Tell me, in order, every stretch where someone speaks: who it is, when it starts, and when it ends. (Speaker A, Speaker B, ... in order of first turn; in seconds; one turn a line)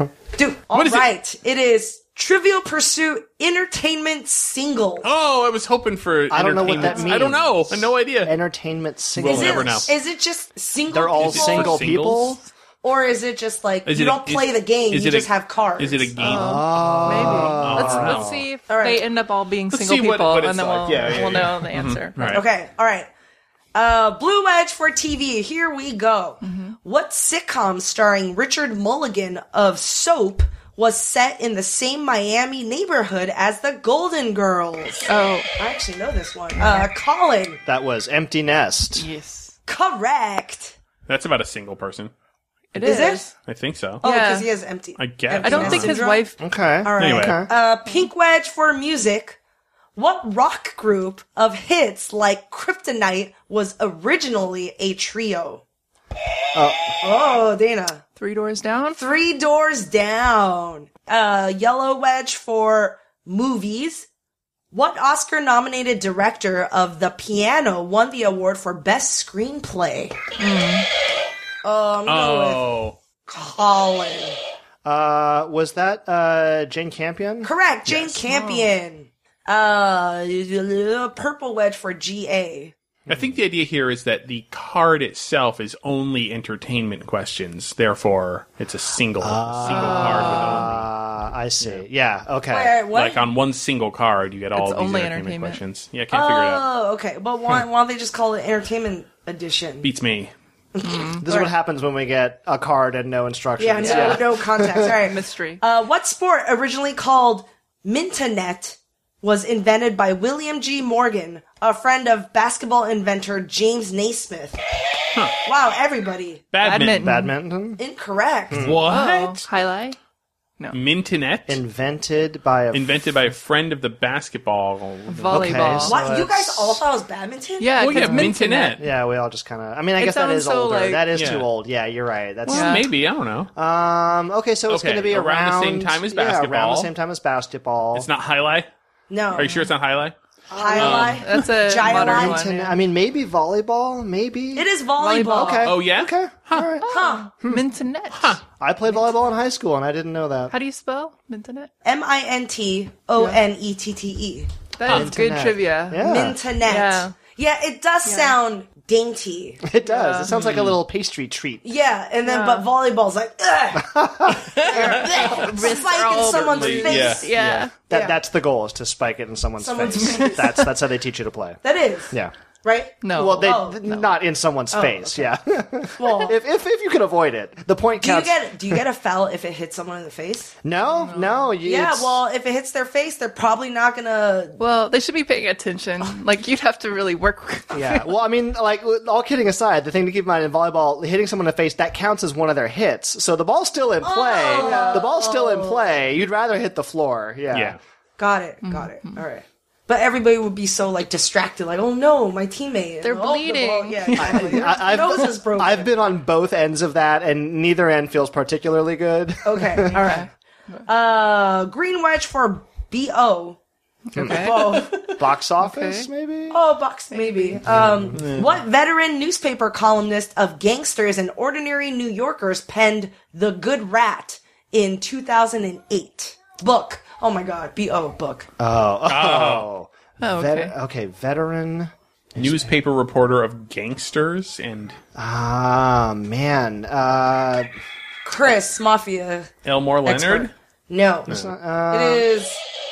Speaker A: 0.3-5.1
Speaker B: 0.7-1.1
Speaker B: 5.0-8.3
Speaker C: 6.3-9.9
Speaker B: 9.2-9.9
Speaker A: 9.2-11.8
Speaker C: 10.9-12.4
Speaker B: 11.2-12.4
Speaker A: 12.8-16.1
Speaker B: 13.8-18.5
Speaker C: 16.2-18.2
Speaker D: 16.2-22.4
Speaker A: 18.7-19.0
Speaker B: 19.7-22.4
Speaker A: 22.3-23.1
Speaker A: 23.7-37.6
Speaker D: 26.4-26.8
Speaker D: 35.0-35.5
Speaker D: 36.5-36.9
Speaker C: 37.6-39.1
Speaker D: 38.9-39.5
Speaker A: 39.7-40.8
Speaker B: 41.1-42.1
Speaker D: 42.7-43.3
Speaker A: 42.8-43.2
Speaker B: 43.5-44.0
Speaker D: 44.0-44.5
Speaker A: 44.0-46.3
Speaker B: 45.0-46.0
Speaker D: 45.4-46.4
Speaker C: 46.4-47.5
Speaker A: 46.8-49.4
Speaker B: 47.0-47.4
Speaker A: 50.0-55.6
Speaker C: 56.5-57.0
Speaker A: 57.0-58.0
Speaker D: 58.2-59.0
Speaker A: 58.9-64.1
Speaker A: 64.7-70.2
Speaker D: 70.4-70.9
Speaker A: 71.6-72.7
Speaker B: 72.0-73.0
Speaker A: 73.2-74.4
Speaker C: 74.8-78.2
Speaker A: 77.4-82.7
Speaker D: 78.3-78.7
Speaker C: 83.1-83.3
Speaker B: 83.1-90.9
Speaker C: 89.2-92.8
Speaker D: 89.7-90.7
Speaker A: 92.5-93.2
Speaker B: 92.9-96.7
Speaker D: 94.5-95.6
Speaker A: 96.1-99.9
Speaker B: 99.8-100.3
Speaker A: 100.7-101.5
Speaker D: 100.8-101.2
Speaker C: 101.2-104.9
Speaker A: 103.6-114.6
Speaker D: 103.8-105.6
Speaker A: 115.4-116.4
Speaker B: 116.5-117.1
Speaker D: 116.6-117.3
Speaker C: 116.9-117.8
Speaker A: 117.8-118.7
Speaker C: 118.5-118.8
Speaker B: 118.5-119.5
Speaker D: 118.9-120.0
Speaker B: 120.7-121.6
Speaker C: 121.5-123.0
Speaker B: 122.7-125.8
Speaker D: 125.1-126.0
Speaker C: 125.3-126.8
Speaker A: 125.8-127.8
Speaker D: 127.6-128.8
Speaker B: 127.8-128.8
Speaker C: 128.8-132.8
Speaker D: 130.0-131.1
Speaker B: 131.1-131.5
Speaker B: 132.4-133.5
Speaker D: 132.5-132.8
Speaker C: 133.6-138.1
Speaker B: 134.7-136.9
Speaker B: 137.9-138.7
Speaker A: 139.1-139.5
Speaker B: 139.3-140.1
Speaker C: 140.5-141.2
Speaker A: 140.5-142.4
Speaker D: 140.6-142.7
Speaker B: 140.8-141.4
Speaker C: 141.7-144.7
Speaker A: 144.5-145.7
Speaker D: 145.0-145.8
Speaker C: 145.2-146.9
Speaker B: 145.6-146.8
Speaker D: 146.8-148.4
Speaker A: 146.9-147.3
Speaker B: 148.1-148.4
Speaker C: 148.6-150.5
Speaker D: 150.5-151.7
Speaker A: 151.8-154.5
Speaker D: 154.8-156.1
Speaker B: 154.8-155.1
Speaker C: 154.9-156.4
Speaker A: 156.0-159.6
Speaker D: 156.6-157.2
Speaker D: 158.0-158.4
Speaker C: 159.6-161.6
Speaker D: 159.8-160.3
Speaker B: 160.3-160.8
Speaker A: 161.6-167.3
Speaker D: 162.2-162.7
Speaker C: 163.8-164.6
Speaker B: 164.5-165.6
Speaker D: 164.7-167.7
Speaker B: 166.2-167.7
Speaker C: 167.9-171.6
Speaker A: 167.9-168.2
Speaker A: 169.6-170.6
Speaker D: 170.1-170.5
Speaker A: 171.6-173.8
Speaker D: 173.0-174.2
Speaker C: 173.1-178.8
Speaker A: 174.7-175.3
Speaker A: 175.9-176.4
Speaker A: 178.0-180.5
Speaker C: 180.6-182.2
Speaker D: 180.9-181.5
Speaker A: 181.6-184.6
Speaker D: 184.6-188.1
Speaker C: 187.7-197.8
Speaker A: 194.0-195.9
Speaker D: 194.6-195.1
Speaker B: 197.5-197.8
Speaker A: 198.2-205.9
Speaker D: 198.6-199.2
Speaker D: 203.0-205.0
Speaker C: 204.2-210.0
Speaker A: 209.4-210.3
Speaker D: 210.0-210.8
Speaker A: 210.8-213.6
Speaker D: 214.1-216.1
Speaker C: 214.2-216.6
Speaker A: 214.2-215.0
Speaker A: 216.5-228.5
Speaker D: 217.1-217.6
Speaker C: 217.6-218.6
Speaker C: 228.6-232.7
Speaker B: 229.1-229.7
Speaker D: 230.2-230.7
Speaker B: 232.4-235.0
Speaker C: 235.2-237.7
Speaker A: 238.2-239.5
Speaker B: 239.6-240.5
Speaker A: 240.0-241.3
Speaker C: 241.3-242.3
Speaker A: 241.9-242.6